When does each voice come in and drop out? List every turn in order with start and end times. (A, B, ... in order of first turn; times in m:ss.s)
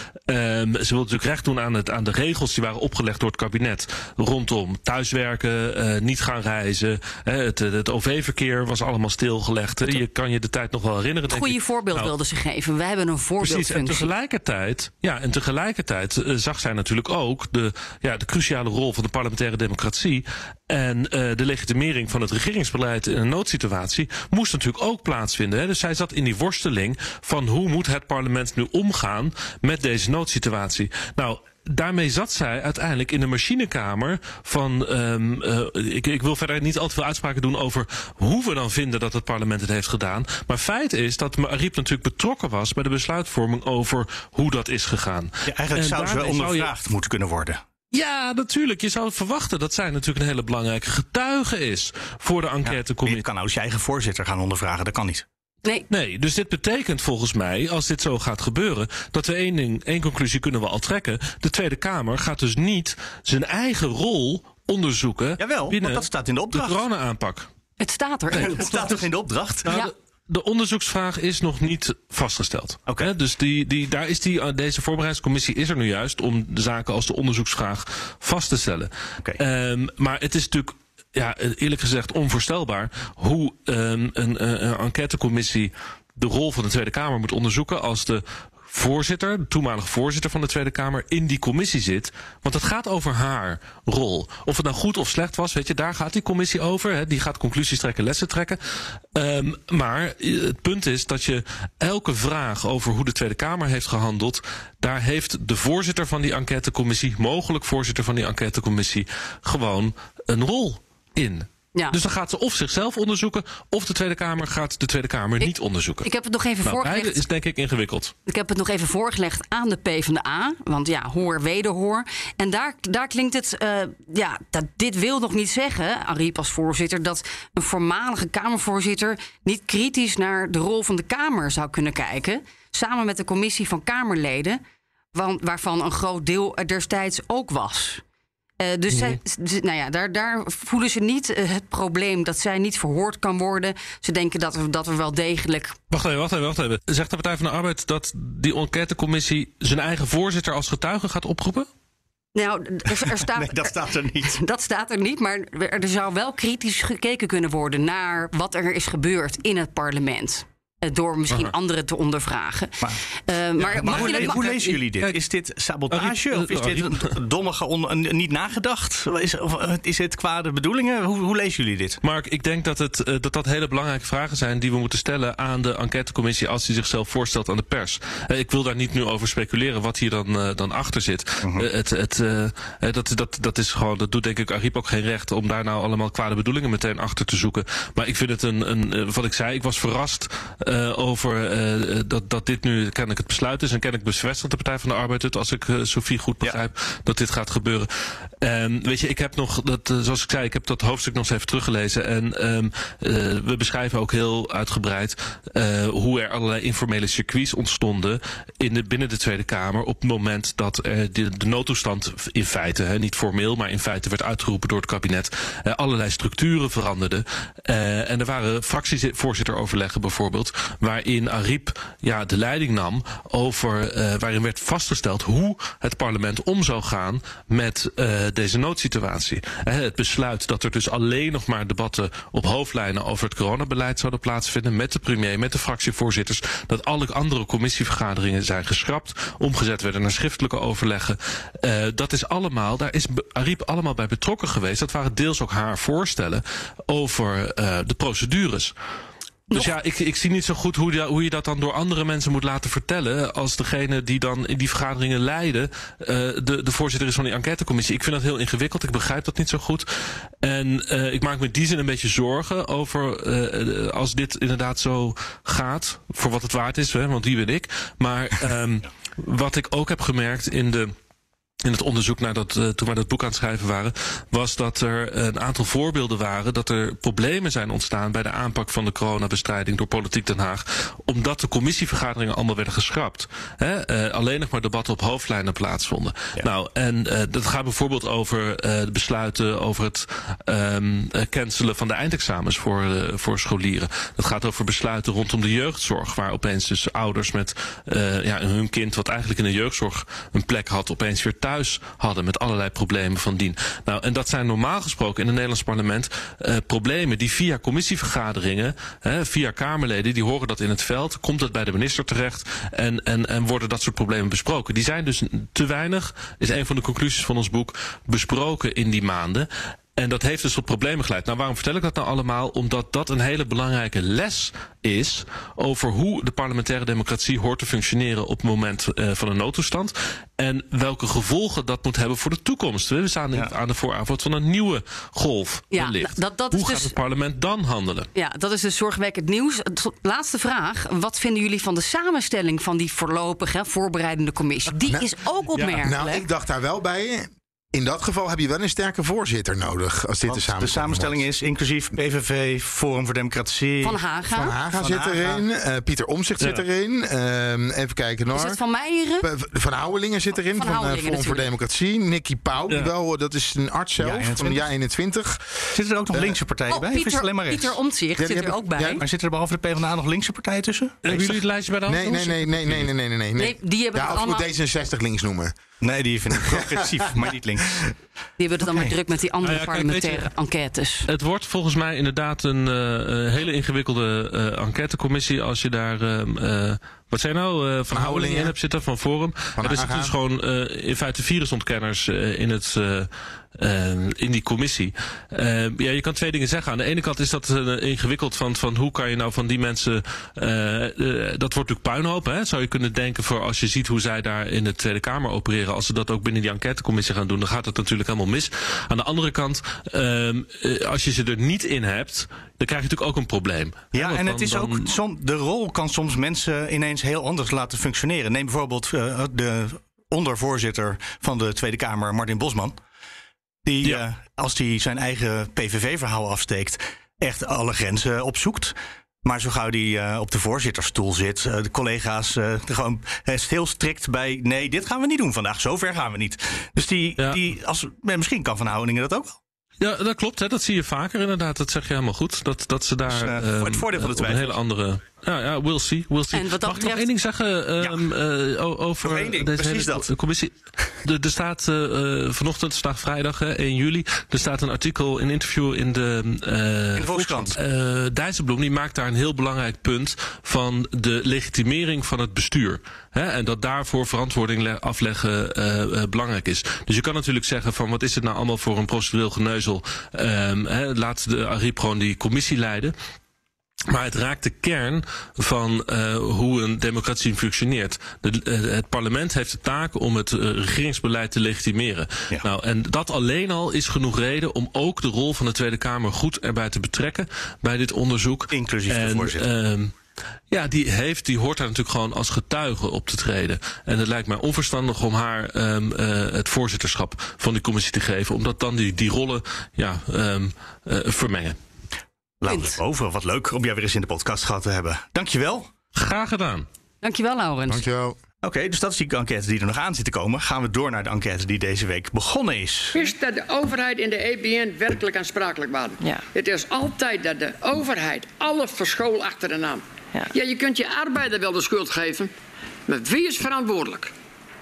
0:00.3-0:12.1 A
0:11.3-0:14.1 B
0:13.4-0:46.7 A
0:45.5-0:47.6 C
0:47.9-0:53.2 A
0:52.6-0:55.2 C
0:55.9-1:07.5 A
1:05.4-1:06.8 C
1:07.8-1:08.9 B
1:08.3-1:08.9 A
1:08.3-1:09.7 C
1:09.6-1:38.6 A
1:09.7-1:09.9 B
1:39.1-1:56.1 A
1:56.0-1:57.2 B
1:56.6-1:58.1 A
1:58.3-2:14.6 B
2:15.1-2:18.0 B
2:18.6-2:25.8 B
2:18.9-2:19.2 A
2:25.9-2:31.7 A
2:32.3-2:44.4 B
2:33.2-2:34.4 C
2:43.6-2:52.0 C
2:43.7-2:45.2 A
2:45.9-2:47.1 A
2:52.0-3:17.9 A
3:01.4-3:01.7 C
3:18.4-4:08.7 A
4:09.5-4:30.9 A
4:31.6-5:38.1 A
5:35.7-5:36.9 B
5:38.1-5:46.2 B
5:44.9-5:51.2 D
5:50.3-5:54.0 C
5:53.8-5:54.5 B
5:54.3-5:58.6 D
5:54.8-5:55.4 C
5:58.3-5:59.2 B
5:59.2-6:06.4 D
6:00.5-6:01.4 B
6:04.0-6:04.7 C
6:05.7-6:07.8 C
6:06.7-6:09.0 B
6:08.2-6:09.0 D
6:09.0-6:11.4 C
6:11.0-6:12.9 A
6:11.9-6:15.5 D
6:13.4-6:14.5 B
6:15.8-6:17.8 C
6:16.3-6:17.8 D
6:18.4-6:21.1 B
6:18.6-6:18.9 C
6:19.4-6:20.3 A
6:21.1-6:54.9 A
6:27.9-6:28.5 D
6:29.6-6:30.1 D
6:53.9-7:02.8 C
7:03.6-7:19.4 C
7:19.8-7:52.9 A
7:23.1-7:24.6 C
7:26.3-7:27.1 B
7:27.8-7:28.1 C
7:29.0-7:30.1 C
7:37.0-7:37.6 C
7:53.9-8:09.9 A
8:08.5-8:09.5 C
8:10.5-8:21.6 A
8:22.4-8:25.7 C
8:22.5-8:22.8 B
8:25.9-8:26.6 A
8:27.0-8:27.8 B
8:27.7-8:28.2 D
8:28.4-8:33.1 C
8:32.9-8:42.3 E
8:42.9-8:44.1 E